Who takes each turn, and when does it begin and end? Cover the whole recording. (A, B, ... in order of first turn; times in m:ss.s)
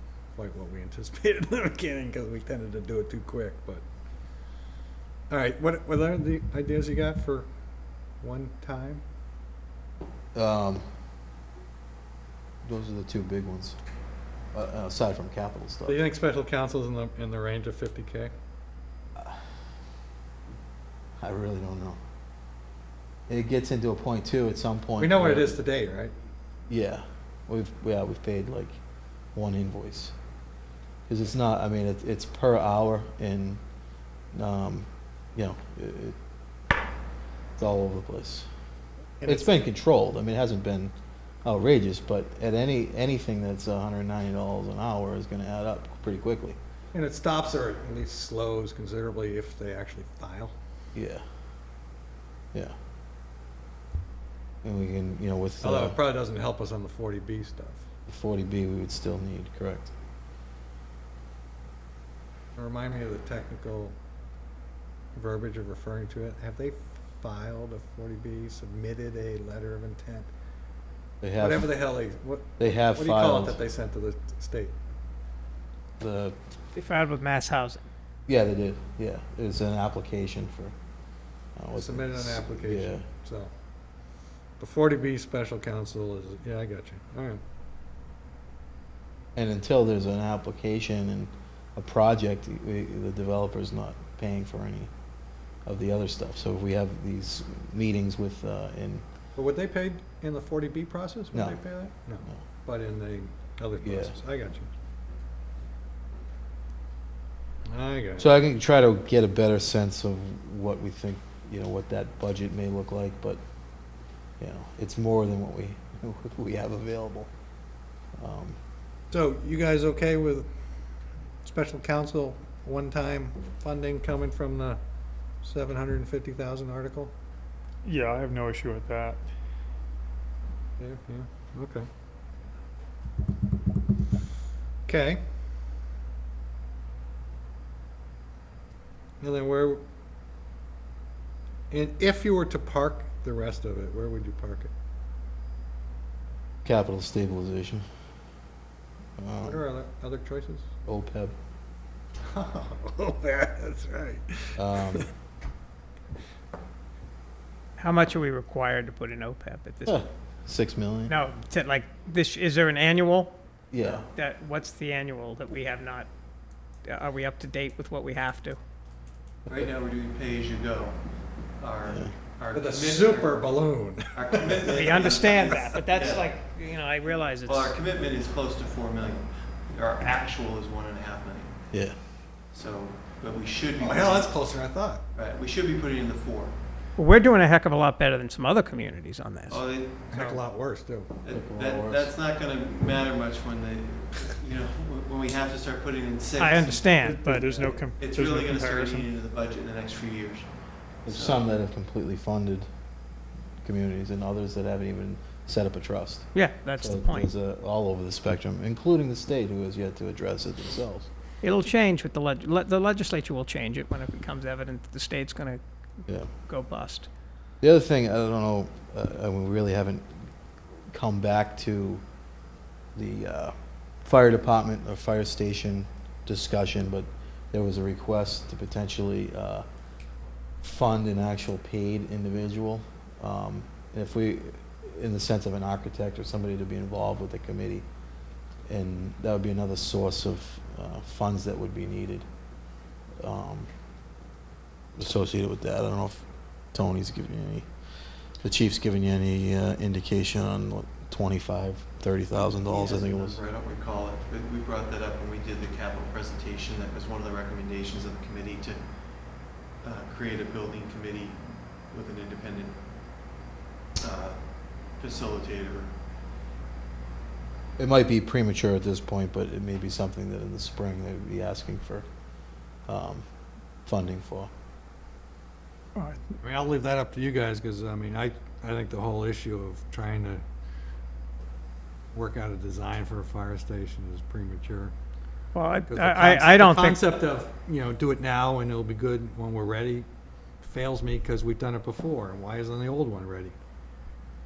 0:00.4-0:03.8 A
0:05.3-0:07.5 A
0:08.2-0:09.0 A
0:10.3-0:10.9 B
0:12.6-0:13.8 B
0:14.5-0:16.0 B
0:15.9-0:18.3 A
0:19.2-0:19.4 B
0:21.2-0:22.0 B
0:23.3-0:25.6 B
0:25.0-0:26.1 A
0:26.7-0:28.8 B
0:29.3-0:30.2 B
0:31.1-0:33.6 B
0:34.3-0:36.2 B
0:37.6-0:38.5 B
0:39.2-0:39.7 A
0:39.2-0:40.9 B
0:41.4-0:46.6 B
0:46.9-0:50.5 A
0:50.9-0:51.2 B
0:54.6-0:56.0 B
0:55.6-0:57.9 A
0:58.1-0:59.9 B
1:02.6-1:04.0 A
1:05.2-1:10.3 A
1:11.2-1:11.8 B
1:11.4-1:14.8 A
1:12.6-1:13.6 B
1:16.0-1:16.4 B
1:16.7-1:17.8 C
1:18.3-1:20.7 B
1:21.6-1:23.0 B
1:21.7-1:23.5 A
1:24.6-1:27.4 A
1:29.4-1:34.9 B
1:35.7-1:39.0 B
1:39.4-1:44.7 A
1:43.8-1:44.2 B
1:47.7-1:48.3 A
1:48.2-1:53.4 B
1:54.4-1:57.3 B
1:58.2-1:58.6 B
1:59.1-2:00.5 A
2:01.4-2:04.8 A
2:05.4-2:07.1 A
2:07.8-2:09.2 D
2:10.8-2:11.9 A
2:14.9-2:15.2 A
2:19.2-2:19.8 A
2:21.7-2:24.7 A
2:26.6-2:27.8 B
2:29.2-2:29.6 B
2:29.4-2:30.7 A
2:30.9-2:31.3 B
2:32.3-2:35.1 A
2:34.6-2:35.1 B
2:37.8-2:40.0 C
2:39.9-2:41.2 B
2:41.1-2:46.1 C
2:43.7-2:44.1 B
2:46.8-2:48.6 C
2:49.5-2:53.5 E
2:51.9-2:52.1 B
2:52.5-2:55.0 A
2:54.1-2:56.3 E
2:54.7-2:57.8 C
2:57.4-3:01.6 E
3:01.7-3:02.0 B
3:02.5-3:04.3 E
3:03.8-3:05.0 A
3:05.1-3:06.5 E
3:07.0-3:09.7 C
3:09.5-3:10.4 E
3:10.1-3:11.1 A
3:11.2-3:16.9 E
3:11.3-3:12.1 B
3:16.4-3:18.0 C
3:17.0-3:19.1 D
3:18.0-3:20.5 E
3:21.1-3:21.4 E
3:21.1-3:22.7 B
3:23.6-3:31.1 B
3:26.3-3:27.3 C
3:31.4-3:37.1 C
3:37.6-3:40.3 B
3:40.9-3:42.0 B
3:43.0-3:49.6 B
3:50.6-3:57.9 B
3:58.7-4:02.3 B
4:03.2-4:03.7 B
4:05.0-4:07.7 B
4:08.4-4:13.4 B
4:12.5-4:18.8 E
4:19.8-4:22.8 E
4:24.0-4:24.4 E
4:24.9-4:25.9 E
4:27.8-4:32.1 B
4:32.9-4:33.2 B
4:33.8-4:34.5 B
4:36.4-4:40.4 A
4:42.1-4:44.9 A
4:45.5-4:47.0 C
4:45.9-4:50.1 A
4:50.6-4:53.6 A